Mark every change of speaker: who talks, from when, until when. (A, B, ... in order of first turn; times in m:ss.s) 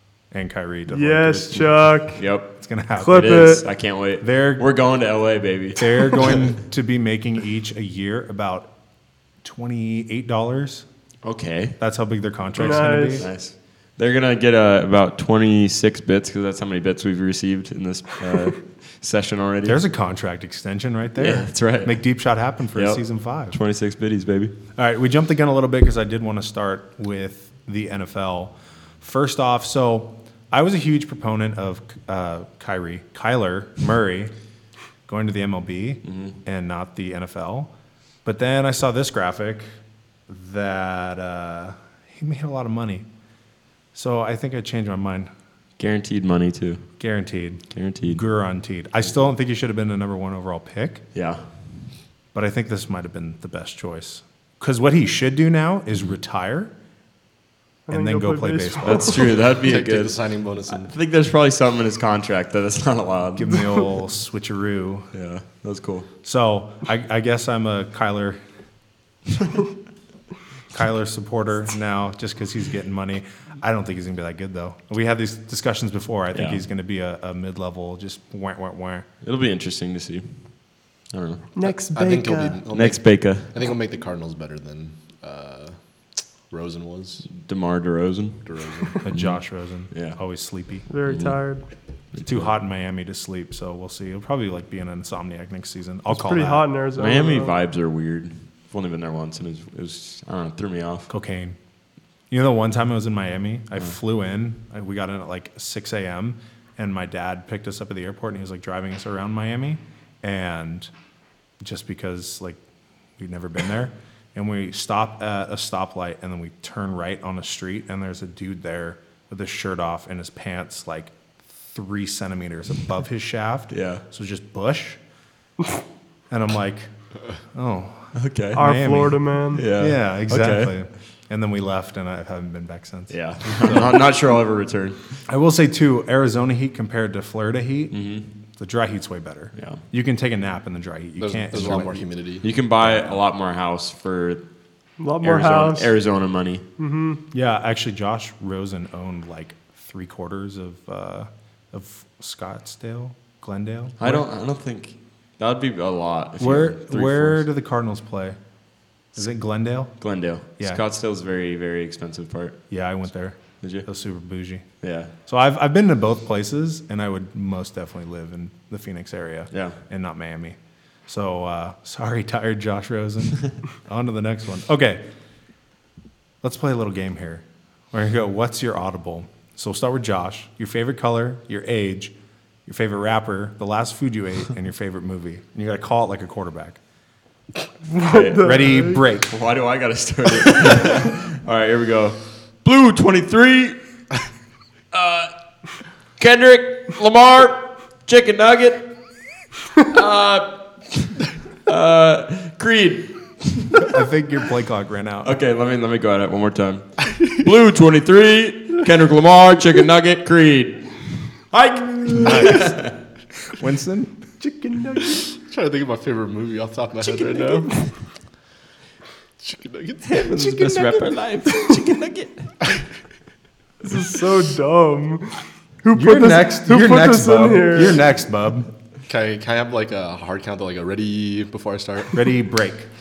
0:00.3-0:03.6 A
0:00.9-0:02.2 B
0:02.2-0:02.5 C
0:03.0-0:03.6 B
0:03.1-0:06.4 C
0:04.2-0:04.7 A
0:05.8-0:08.7 A
0:09.4-0:10.8 A
0:11.2-0:11.8 C
0:11.8-0:13.3 A
0:12.6-0:13.2 B
0:13.2-0:19.8 C
0:19.6-0:23.6 A
0:21.2-0:22.0 C
0:22.7-0:24.5 C
0:24.8-0:34.3 A
0:35.0-0:37.7 A
0:36.0-0:36.4 C
0:38.2-0:39.6 A
0:40.3-0:43.0 A
0:43.9-0:45.3 A
0:45.8-0:46.9 C
0:47.0-0:51.0 A
0:47.7-0:48.2 C
0:51.1-0:51.4 C
0:52.3-0:56.7 A
0:57.9-0:59.2 B
0:57.9-0:59.2 A
0:58.8-1:03.6 C
0:59.4-1:00.9 D
1:03.4-1:05.1 A
1:05.1-1:06.1 C
1:06.2-1:08.4 A
1:10.7-1:19.0 A
1:16.3-1:16.6 C
1:19.2-1:21.5 C
1:21.5-1:22.6 B
1:21.9-1:27.3 D
1:22.7-1:23.7 C
1:27.3-1:28.4 C
1:28.4-1:29.0 D
1:29.0-1:30.9 A
1:29.0-1:29.4 C
1:29.9-1:30.2 C
1:30.9-1:31.6 B
1:31.0-1:31.5 C
1:32.1-1:32.5 C
1:32.2-1:36.6 A
1:36.1-1:37.6 B
1:37.0-1:41.1 C
1:41.1-1:41.6 A
1:42.3-1:50.9 A
1:51.6-1:52.6 A
1:53.2-2:01.1 A
2:01.7-2:05.0 A
2:03.7-2:04.0 C
2:06.3-2:06.9 A
2:07.5-2:14.0 A
2:08.1-2:08.6 C
2:08.5-2:09.6 B
2:09.5-2:10.7 C
2:13.1-2:15.0 C
2:15.3-2:18.0 A
2:17.9-2:18.3 C
2:18.6-2:22.0 A
2:19.5-2:19.8 C
2:21.2-2:22.5 D
2:22.4-2:24.4 C
2:22.8-2:23.2 A
2:25.0-2:25.9 B
2:25.2-2:26.6 C
2:26.8-2:27.2 B
2:27.3-2:34.2 A
2:34.0-2:37.5 C
2:36.4-2:38.4 A
2:39.1-2:40.0 A
2:40.0-2:42.6 C
2:42.7-2:44.6 A
2:43.6-2:43.9 C
2:44.8-2:45.1 C
2:45.2-2:55.0 A
2:49.5-2:49.8 C
2:56.4-3:02.1 A
3:02.6-3:06.8 A
3:07.9-3:09.0 B
3:08.1-3:08.5 C
3:08.4-3:09.3 A
3:09.3-3:13.8 C
3:14.9-3:15.3 C
3:16.2-3:18.9 C
3:19.9-3:23.9 C
3:23.8-3:25.3 A
3:25.2-3:32.9 C
3:32.2-3:32.9 A
3:33.5-3:34.2 A
3:34.4-3:35.2 B
3:35.4-3:37.7 D
3:37.0-3:37.9 C
3:39.4-3:40.4 D
3:40.0-3:42.5 C
3:43.8-3:48.0 B
3:45.9-3:48.7 A
3:49.1-3:52.2 D
3:52.1-3:52.9 A